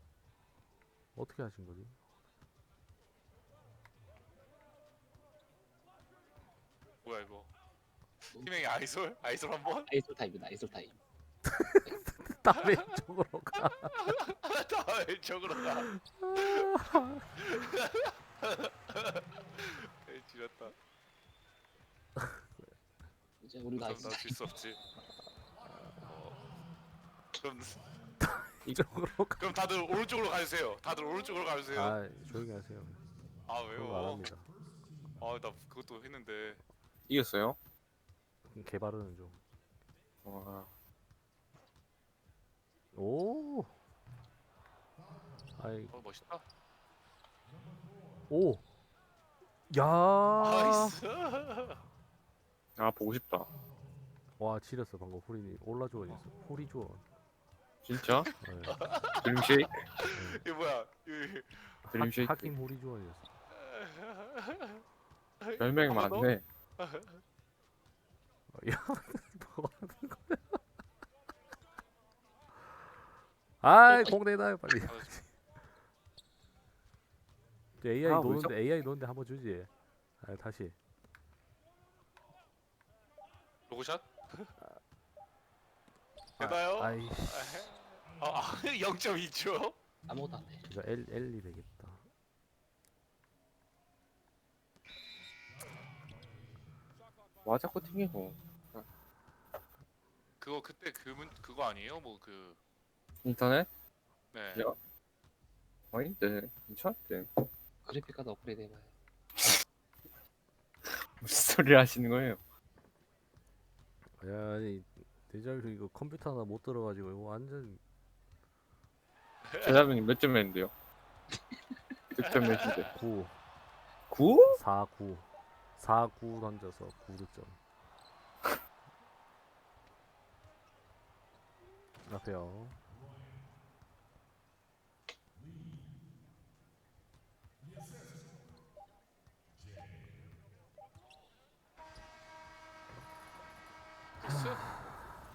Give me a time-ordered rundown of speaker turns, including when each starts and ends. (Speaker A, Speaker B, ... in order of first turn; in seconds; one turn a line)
Speaker A: 1.1-2.0
Speaker B: 7.0-7.5
Speaker B: 8.3-9.9
Speaker C: 9.8-11.0
Speaker A: 11.4-14.1
Speaker B: 13.9-20.7
Speaker A: 15.6-17.2
Speaker A: 22.2-22.4
Speaker C: 23.4-24.5
Speaker B: 23.7-24.8
Speaker B: 25.9-26.4
Speaker B: 27.3-27.8
Speaker A: 28.2-29.5
Speaker B: 29.4-32.0
Speaker A: 31.7-33.0
Speaker B: 33.5-34.3
Speaker A: 33.7-34.5
Speaker B: 35.2-36.6
Speaker D: 37.1-37.6
Speaker A: 38.5-39.4
Speaker D: 40.2-40.7
Speaker A: 42.9-43.8
Speaker A: 45.6-45.9
Speaker B: 45.9-46.4
Speaker A: 48.3-48.6
Speaker A: 49.7-51.0
Speaker B: 50.3-51.8
Speaker D: 52.8-53.5
Speaker A: 54.4-57.0
Speaker D: 57.8-58.3
Speaker B: 58.3-61.9
Speaker A: 58.4-58.8
Speaker D: 59.2-59.8
Speaker A: 60.1-60.4
Speaker A: 61.9-63.3
Speaker D: 61.9-62.5
Speaker B: 63.5-64.8
Speaker B: 65.4-67.2
Speaker D: 65.6-66.4
Speaker A: 68.5-70.6
Speaker A: 73.6-75.3
Speaker B: 74.7-75.1
Speaker A: 77.8-80.8
Speaker D: 78.0-78.5
Speaker B: 83.7-84.5
Speaker B: 86.4-89.8
Speaker A: 86.4-87.7
Speaker C: 90.1-90.7
Speaker A: 90.7-92.0
Speaker D: 97.4-98.8
Speaker B: 100.4-102.6
Speaker D: 103.2-103.7
Speaker B: 104.3-104.7
Speaker D: 105.9-107.5
Speaker C: 107.8-108.9
Speaker D: 111.2-112.4
Speaker A: 114.2-117.8
Speaker B: 119.5-119.8
Speaker D: 119.6-120.7
Speaker D: 122.1-122.9
Speaker B: 122.4-122.9
Speaker A: 122.9-123.4
Speaker D: 124.1-124.6
Speaker A: 124.5-127.6
Speaker A: 132.1-132.8
Speaker B: 144.2-144.6
Speaker A: 144.2-145.0